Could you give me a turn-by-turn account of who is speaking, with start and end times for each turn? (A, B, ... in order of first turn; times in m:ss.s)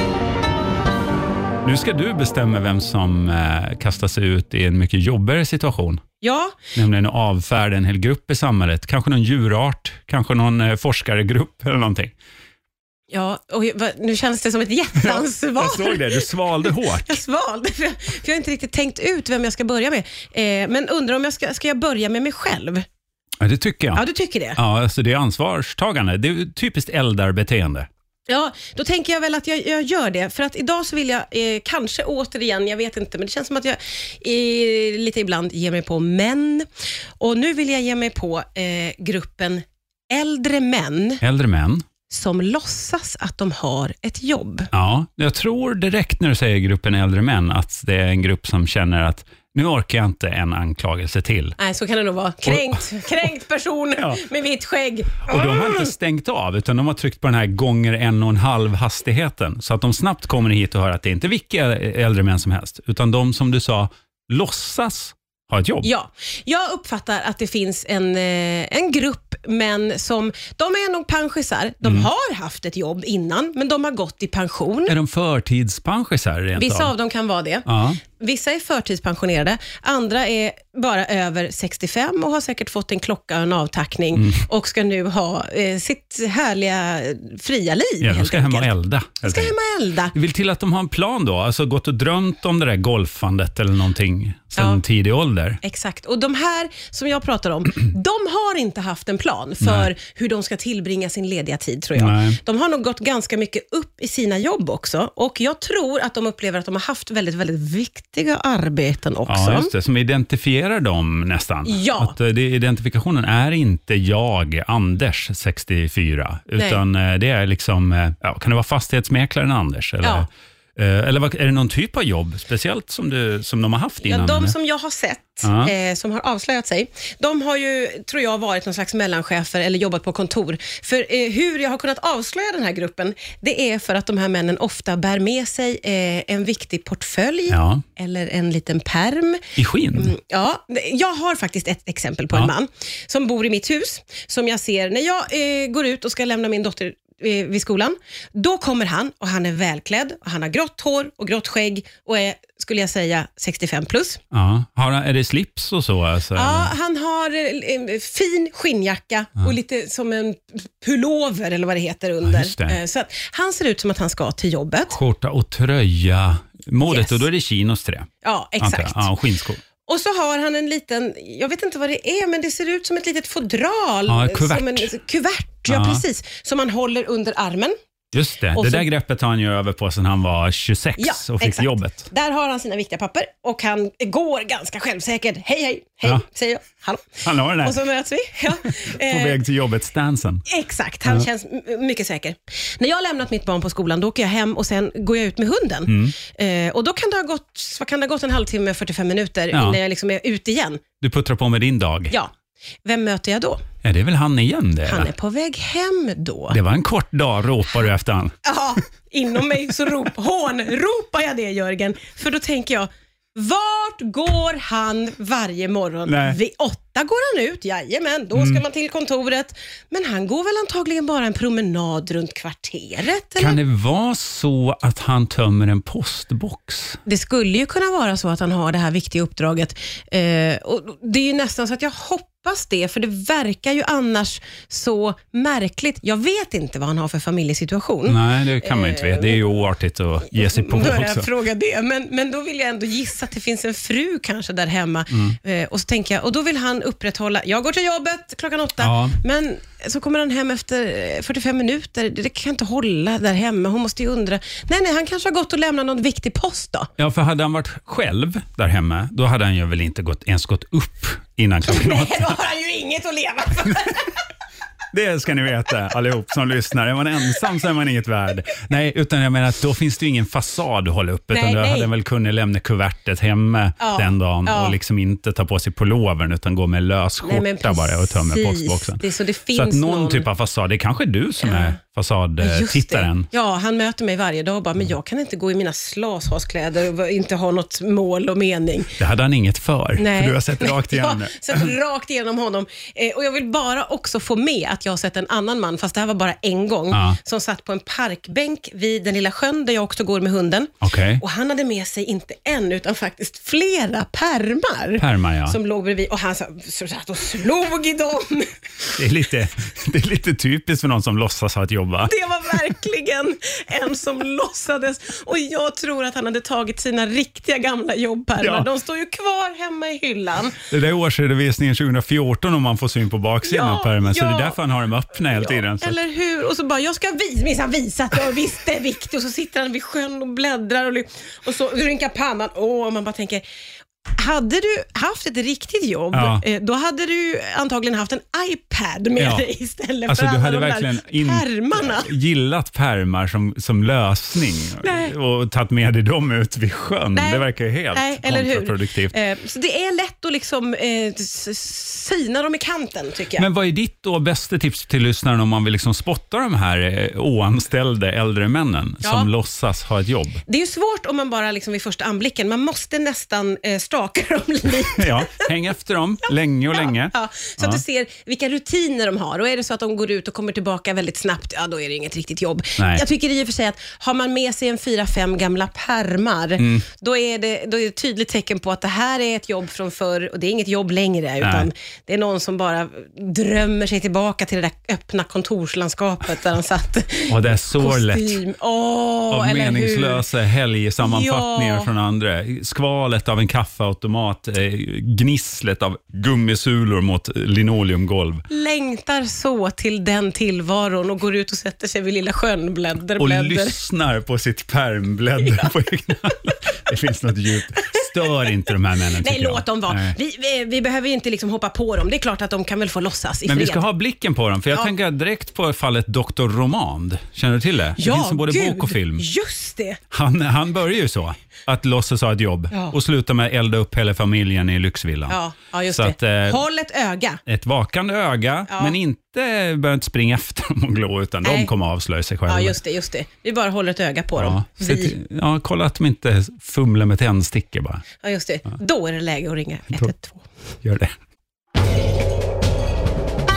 0:01.6-0:06.0 A
0:06.2-0:06.6 B
0:06.7-0:12.1 A
0:13.1-0:22.9 B
0:15.0-0:17.2 A
0:23.4-0:24.0 A
0:23.9-0:24.6 B
0:24.6-0:27.9 A
0:28.3-0:41.2 B
0:41.2-0:41.9 A
0:42.1-0:44.7 B
0:44.7-0:51.6 A
0:51.6-0:55.9 B
0:52.5-0:53.2 A
0:54.0-0:54.2 A
0:55.2-1:05.9 A
1:05.8-1:15.0 B
1:14.9-1:16.9 A
1:16.6-1:28.7 B
1:17.7-1:18.0 A
1:24.2-1:24.4 A
1:28.0-1:29.5 A
1:29.2-1:30.1 B
1:30.1-1:35.6 A
1:34.6-1:34.8 B
1:35.6-1:49.7 B
1:39.6-1:39.9 A
1:42.0-1:42.4 A
1:49.3-2:04.6 A
1:51.7-1:52.2 B
2:00.0-2:00.3 B
2:04.0-2:34.2 B
2:05.4-2:05.7 A
2:17.5-2:17.8 A
2:19.6-2:20.1 A
2:34.3-2:36.7 A
2:36.4-2:45.0 B
2:42.2-2:42.8 A
2:44.9-2:49.6 A
2:46.8-2:47.2 B
2:48.2-2:49.1 B
2:49.9-2:57.8 B
2:54.1-2:54.9 A
2:55.7-2:56.0 A
2:58.1-3:02.1 A
2:58.5-2:58.9 B
3:01.0-3:09.4 B
3:07.2-3:07.8 A
3:08.6-3:10.4 A
3:10.5-3:20.8 B
3:15.9-3:16.2 A
3:19.5-3:19.8 A
3:21.0-3:22.2 A
3:22.8-3:23.6 B
3:23.8-3:25.1 A
3:24.9-3:26.6 B
3:26.5-3:28.4 A
3:28.4-3:43.6 B
3:36.1-3:36.4 A
3:38.4-3:38.6 A
3:43.4-3:47.0 A
3:47.1-3:59.4 B
3:58.1-4:01.3 A
4:00.3-4:16.9 B
4:05.1-4:05.4 A
4:08.8-4:09.2 A
4:17.0-4:22.4 A
4:21.6-4:24.2 B
4:24.9-4:43.3 A
4:31.3-4:31.9 B
4:33.8-4:34.8 B
4:37.2-4:40.3 B
4:41.4-4:41.8 B
4:42.4-4:49.0 B
4:49.0-4:51.7 A
4:50.0-5:08.6 B
4:56.9-4:57.2 A
5:00.8-5:01.2 A
5:05.0-5:05.6 A
5:08.9-5:12.1 A
5:12.0-5:20.6 B
5:18.4-5:18.7 A
5:20.7-5:26.0 A
5:23.4-5:24.6 B
5:25.3-5:33.4 B
5:34.1-5:42.1 B
5:36.1-5:36.4 A
5:39.2-5:39.5 A
5:40.1-5:49.1 A
5:44.8-5:45.1 B
5:47.2-5:53.5 B
5:53.4-6:00.4 A
5:59.0-5:59.3 B
6:00.5-6:05.5 B
6:04.9-6:07.8 A
6:06.7-6:30.2 B
6:12.8-6:13.0 A
6:16.6-6:16.9 A
6:21.4-6:21.7 A
6:27.3-6:28.4 A
6:29.3-6:38.4 A
6:31.0-6:31.9 B
6:38.5-6:43.8 B
6:43.2-6:50.2 A
6:45.4-6:45.7 B
6:47.9-6:48.5 B
6:49.2-6:53.8 B
6:53.5-6:59.2 A
6:58.0-7:00.0 B
7:00.1-7:06.6 A
7:02.7-7:03.0 B
7:05.3-7:07.4 B
7:07.5-7:12.8 A
7:08.7-7:09.0 B
7:11.4-7:11.7 B
7:12.5-7:15.1 B
7:14.4-7:18.0 A
7:18.2-7:20.4 B
7:20.8-7:21.2 A